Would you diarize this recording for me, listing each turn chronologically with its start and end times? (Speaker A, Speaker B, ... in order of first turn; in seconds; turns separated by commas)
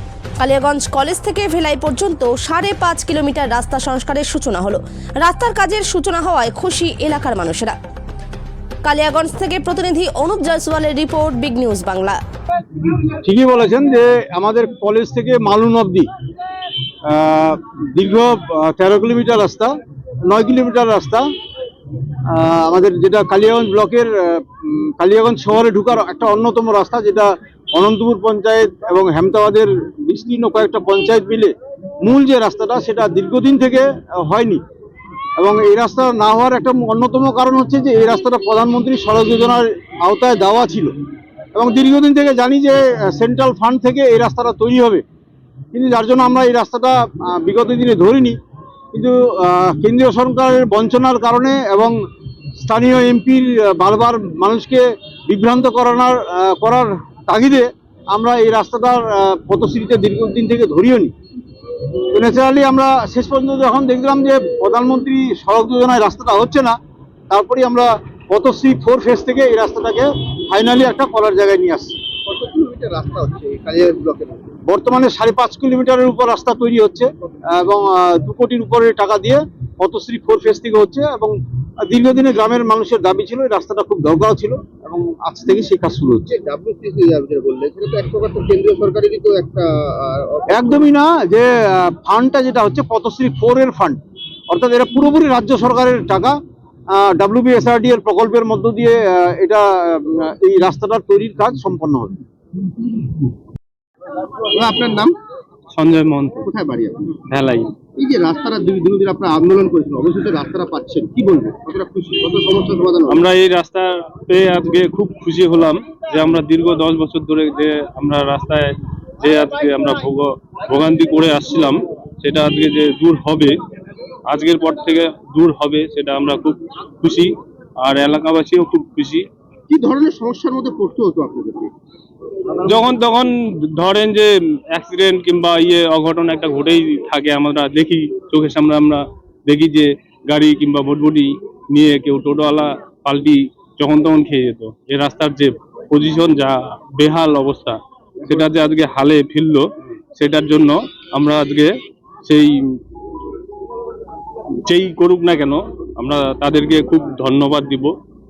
Speaker A: 0.4-7.8, Speaker A: 8.8-12.2, Speaker B: 13.2-16.1, Speaker B: 17.1-19.7, Speaker B: 20.3-21.3, Speaker B: 22.3-34.6, Speaker B: 35.4-41.0, Speaker B: 41.5-45.0, Speaker B: 45.7-48.4, Speaker B: 48.9-52.0, Speaker B: 52.6-61.1, Speaker B: 62.1-66.8, Speaker B: 67.3-72.0, Speaker C: 72.2-74.6, Speaker B: 74.7-81.3, Speaker B: 81.9-86.3, Speaker C: 86.3-90.8, Speaker B: 90.5-94.0, Speaker B: 94.5-96.4, Speaker B: 96.9-102.2, Speaker C: 104.3-105.1, Speaker D: 105.7-106.4, Speaker C: 106.4-107.2, Speaker D: 107.3-107.8, Speaker C: 108.0-113.2, Speaker D: 113.1-123.5, Speaker D: 124.3-129.2, Speaker C: 129.7-131.7, Speaker D: 132.6-151.7, Speaker D: 152.3-152.8, Speaker D: 154.7-157.9